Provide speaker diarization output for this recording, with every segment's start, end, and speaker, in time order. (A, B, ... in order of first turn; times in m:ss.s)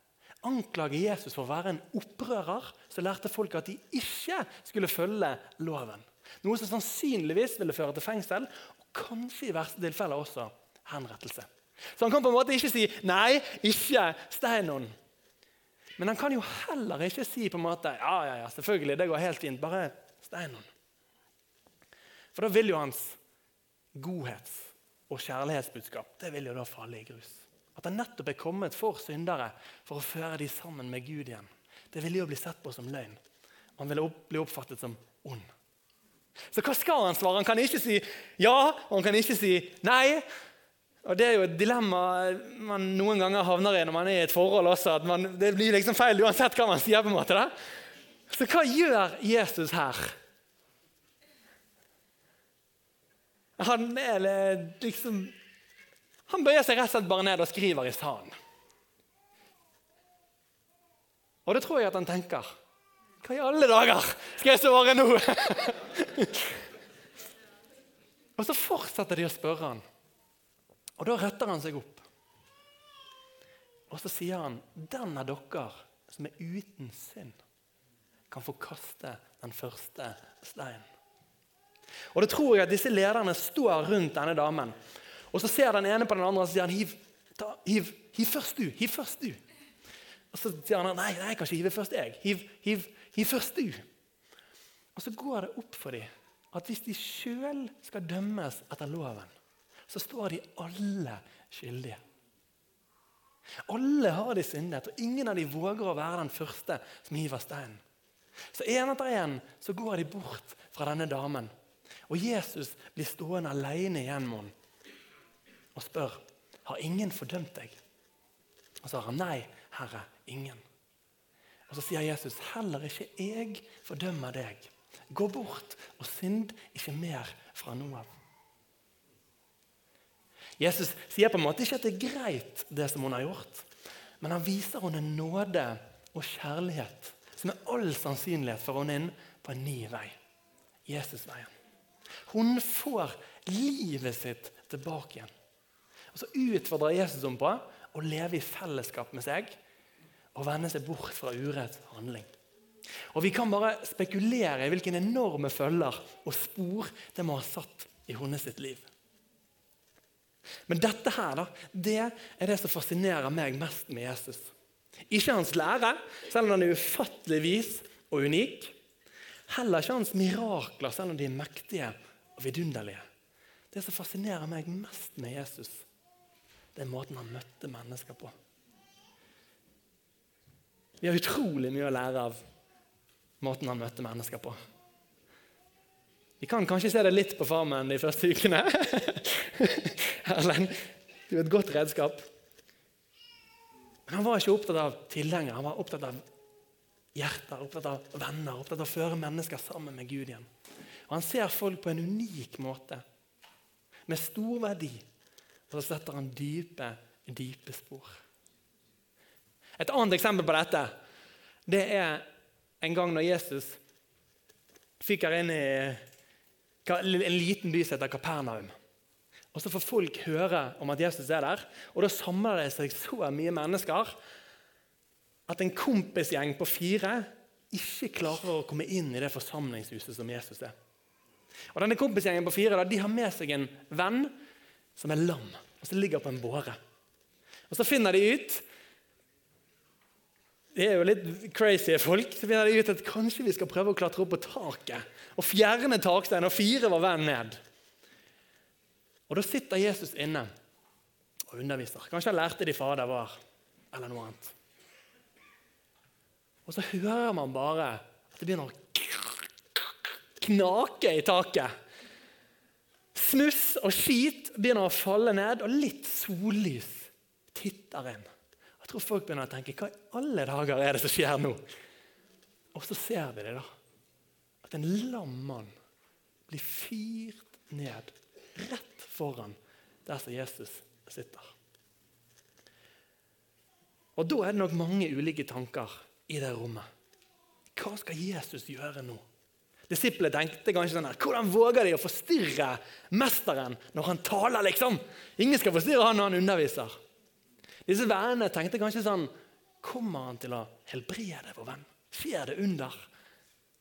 0:00.4-0:14.9 A
0:16.0-0:20.7 A
0:22.3-0:23.2 A
0:24.0-0:33.2 A
0:33.8-0:35.5 A
0:36.5-0:40.2 A
0:41.0-0:47.5 A
0:48.3-0:50.2 A
0:53.6-0:55.4 A
0:56.3-0:58.4 A
1:01.4-1:02.5 A
1:03.2-1:06.6 A
1:08.4-1:09.8 A
1:11.0-1:12.0 A
1:13.9-1:17.4 A
1:18.3-1:20.9 A
1:22.1-1:24.8 A
1:25.3-1:29.4 A
1:30.3-1:33.8 A
1:34.9-1:39.3 A
1:39.9-1:42.0 A
1:43.6-1:47.8 A
1:48.5-1:51.5 A
1:52.1-1:54.5 A
1:55.8-1:57.8 A
1:58.8-2:00.6 A
2:01.7-2:08.1 A
2:10.6-2:13.7 A
2:14.2-2:20.2 A
2:20.8-2:21.5 A
2:22.3-2:25.3 A
2:26.1-2:29.6 A
2:30.3-2:32.3 A
2:33.1-2:38.9 A
2:40.7-2:44.5 A
2:45.1-2:48.8 A
2:49.5-2:53.0 A
2:53.7-2:55.8 A
2:56.8-2:58.3 A
3:01.0-3:02.4 A
3:03.4-3:04.6 A
3:06.4-3:12.2 A
3:14.1-3:16.2 A
3:17.1-3:20.5 A
3:21.1-3:23.0 A
3:24.1-3:25.0 A
3:25.7-3:28.2 A
3:29.8-3:30.9 A
3:31.7-3:32.2 A
3:32.8-3:33.8 A
3:35.0-3:36.0 A
3:36.8-3:38.7 A
3:39.5-3:44.2 A
3:45.5-3:50.7 A
3:51.7-3:54.3 A
3:55.0-3:56.8 A
3:57.7-3:58.7 A
4:00.7-4:07.6 A
4:09.3-4:10.5 A
4:11.5-4:13.4 A
4:13.9-4:14.5 A
4:16.7-4:21.7 A
4:23.1-4:28.3 A
4:28.8-4:31.6 A
4:32.7-4:33.7 A
4:34.6-4:35.7 A
4:36.5-4:41.5 A
4:44.2-4:46.9 A
4:47.8-4:49.2 A
4:49.9-4:57.0 A
4:57.8-4:59.3 A
4:59.8-5:03.0 A